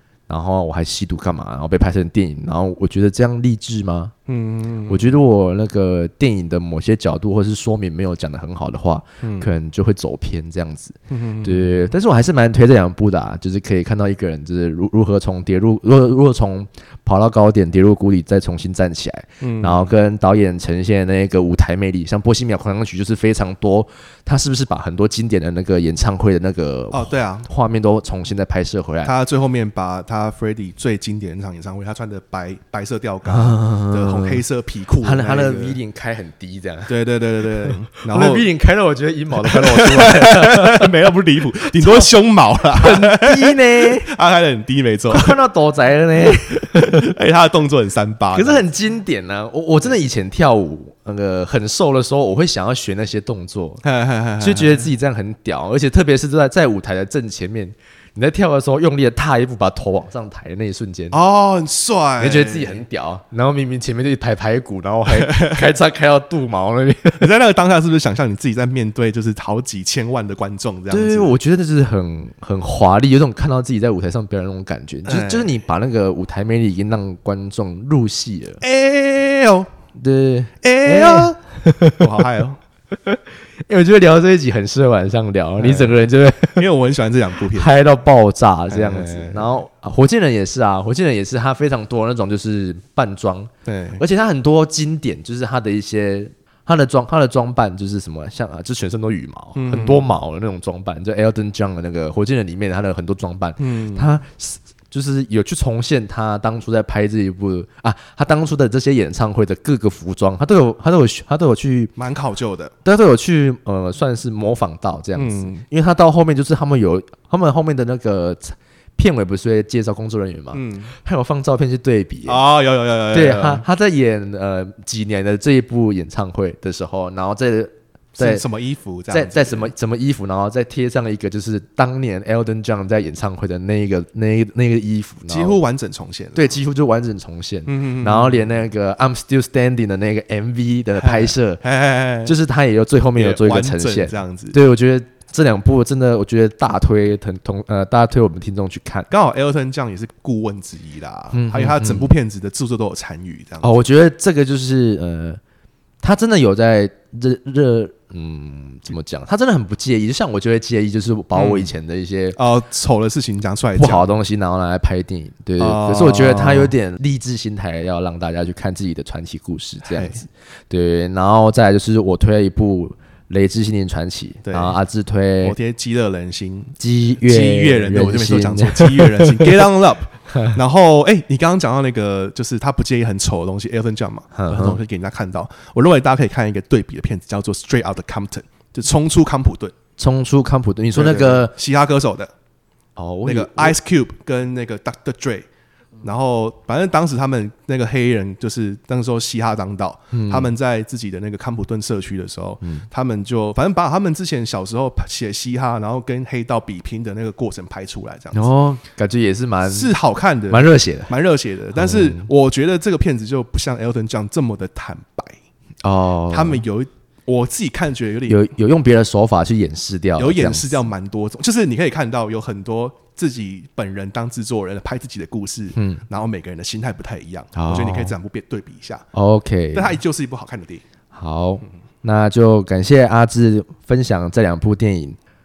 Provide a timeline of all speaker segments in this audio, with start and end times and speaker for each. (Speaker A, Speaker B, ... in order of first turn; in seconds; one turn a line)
Speaker A: 0.3-4.1
Speaker B: 4.3-5.2
Speaker A: 4.9-29.1
Speaker B: 9.2-9.5
Speaker B: 11.1-11.8
Speaker B: 19.4-19.9
Speaker B: 26.9-27.5
Speaker B: 29.0-35.8
Speaker A: 33.2-34.4
Speaker A: 35.0-36.9
Speaker B: 36.9-38.5
Speaker A: 37.7-40.9
Speaker B: 39.5-45.4
Speaker A: 41.6-42.1
Speaker A: 42.7-44.1
Speaker A: 45.1-47.1
Speaker B: 46.5-48.7
Speaker A: 48.3-53.8
Speaker B: 53.8-54.9
Speaker A: 54.4-61.2
Speaker B: 61.1-62.8
Speaker A: 62.2-67.3
Speaker B: 65.2-65.6
Speaker B: 67.2-71.4
Speaker A: 70.9-78.6
Speaker B: 75.1-75.6
Speaker B: 78.6-79.7
Speaker A: 80.0-82.1
Speaker B: 80.6-81.4
Speaker B: 82.0-82.6
Speaker A: 82.9-86.7
Speaker B: 85.6-85.9
Speaker B: 86.6-87.7
Speaker A: 87.5-111.9
Speaker B: 88.7-89.6
Speaker B: 93.7-94.0
Speaker B: 99.5-100.1
Speaker B: 103.6-104.1
Speaker B: 112.0-112.7
Speaker A: 112.8-122.4
Speaker B: 115.2-115.7
Speaker B: 120.5-121.0
Speaker B: 122.2-123.6
Speaker A: 123.1-128.5
Speaker B: 128.2-129.7
Speaker A: 129.1-135.6
Speaker B: 135.3-136.6
Speaker A: 136.3-141.6
Speaker B: 137.7-138.4
Speaker B: 141.0-142.3
Speaker A: 142.2-149.1
Speaker B: 143.2-144.6
Speaker B: 149.1-153.8
Speaker A: 151.3-152.1
Speaker A: 153.6-155.4
Speaker A: 156.0-162.4
Speaker B: 161.3-161.7
Speaker B: 162.3-164.1
Speaker A: 163.8-175.6
Speaker B: 165.6-166.7
Speaker B: 169.8-170.2
Speaker B: 174.4-174.8
Speaker B: 175.4-189.7
Speaker A: 176.8-179.7
Speaker A: 184.3-184.8
Speaker A: 190.0-191.5
Speaker B: 190.9-192.3
Speaker A: 193.0-193.8
Speaker B: 193.2-195.5
Speaker B: 196.0-208.5
Speaker A: 200.1-200.5
Speaker A: 208.3-209.9
Speaker B: 209.7-215.4
Speaker A: 210.5-211.1
Speaker A: 211.7-212.3
Speaker A: 215.8-216.6
Speaker B: 216.3-218.5
Speaker A: 218.3-220.8
Speaker B: 220.2-229.1
Speaker A: 225.8-226.0
Speaker A: 227.6-228.2
Speaker A: 229.1-230.0
Speaker B: 229.7-230.8
Speaker A: 231.1-235.2